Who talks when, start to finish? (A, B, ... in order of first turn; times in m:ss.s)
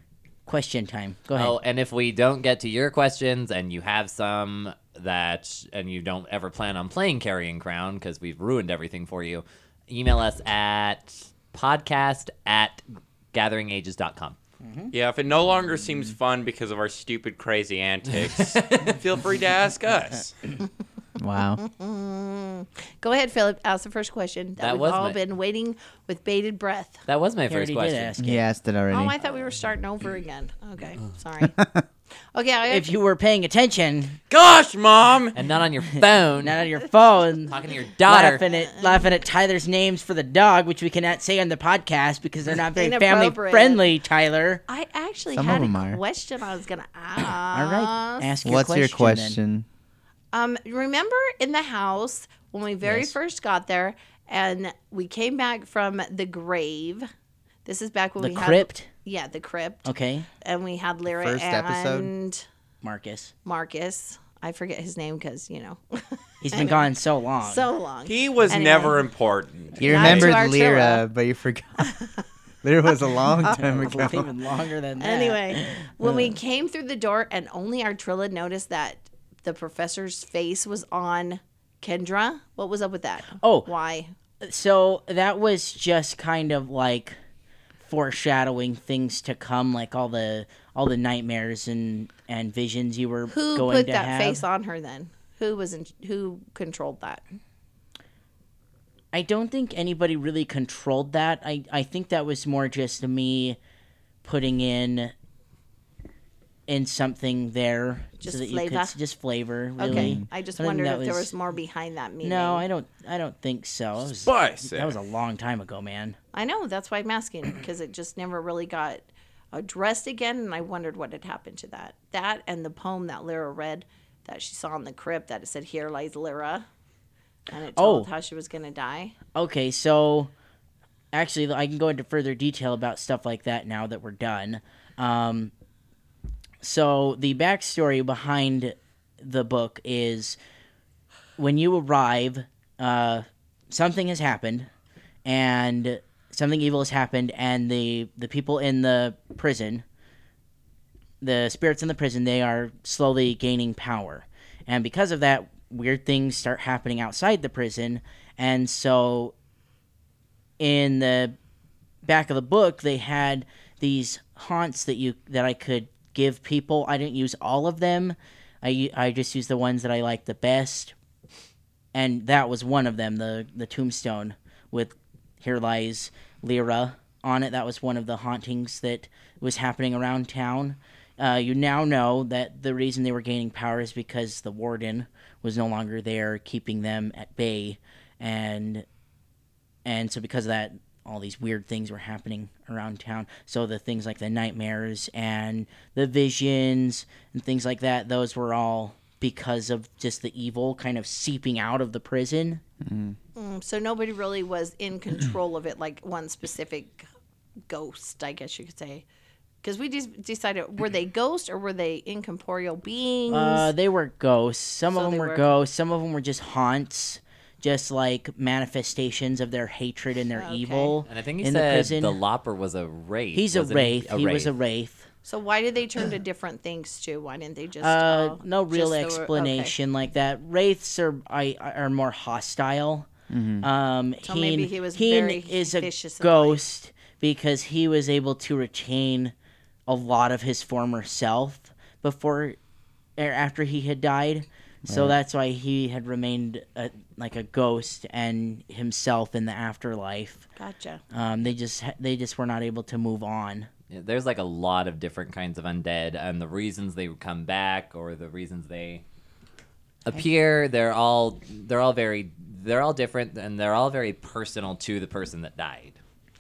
0:00.4-0:01.5 A
0:01.3-0:14.4 B
0:14.6-0:14.9 A
0:14.9-0:20.4 C
0:18.4-0:19.0 B
0:21.2-0:21.6 D
0:21.6-0:27.0 E
0:24.6-0:25.2 B
0:27.0-0:28.1 B
0:27.5-0:28.4 A
0:28.2-0:29.2 D
0:28.9-0:31.6 E
0:31.5-0:31.8 D
0:32.3-0:32.9 E
0:32.7-0:34.2 A
0:34.3-0:35.4 C
0:35.3-0:36.6 B
0:36.4-0:37.5 A
0:36.6-0:37.4 E
0:37.5-0:38.4 B
0:38.0-0:44.6 A
0:38.4-0:39.1 E
0:42.7-0:43.8 E
0:44.7-0:48.3 E
0:45.3-0:46.0 D
0:47.5-0:49.4 A
0:48.4-0:49.6 D
0:50.3-0:57.1 E
0:52.8-0:53.1 A
0:57.6-1:02.4 E
0:58.2-0:58.9 A
0:59.8-1:00.3 A
1:01.1-1:02.1 D
1:02.8-1:03.3 A
1:03.4-1:09.0 E
1:06.4-1:07.7 A
1:08.0-1:10.4 C
1:09.8-1:11.9 D
1:09.8-1:11.0 E
1:11.8-1:12.1 E
1:12.6-1:14.3 D
1:13.4-1:16.4 A
1:15.0-1:24.1 E
1:23.4-1:23.7 A
1:24.4-1:27.2 A
1:27.8-1:34.4 A
1:33.3-1:37.2 E
1:39.1-1:43.6 A
1:44.2-1:45.1 A
1:46.7-1:51.3 A
1:48.2-1:49.0 E
1:49.8-1:52.6 E
1:49.8-1:50.3 D
1:52.2-1:56.2 A
1:54.0-1:55.0 C
1:56.3-2:06.7 E
2:07.5-2:09.1 E
2:07.8-2:08.1 A
2:09.3-2:10.3 A
2:11.1-2:15.5 A
2:16.6-2:20.4 A
2:21.4-2:24.7 A
2:25.2-2:29.8 A
2:31.2-2:39.3 A
2:40.6-2:41.3 A
2:42.0-2:50.9 A
2:51.9-3:08.8 A
3:09.8-3:22.6 A
3:22.8-3:23.2 D
3:23.4-3:27.0 E
3:27.7-3:29.0 E
3:29.6-3:33.7 E
3:33.3-3:42.2 A
3:34.9-3:35.6 E
3:40.4-3:41.0 E
3:41.1-3:44.5 B
3:43.3-3:45.0 A
3:45.2-3:49.7 E
3:47.8-3:53.1 A
3:53.3-3:53.7 D
3:53.6-3:59.3 A
3:54.2-3:56.6 E
3:59.9-4:02.6 A
4:03.2-4:10.4 A
4:04.8-4:05.2 D
4:10.6-4:11.0 E
4:11.1-4:13.7 A
4:13.9-4:19.0 B
4:20.0-4:26.0 B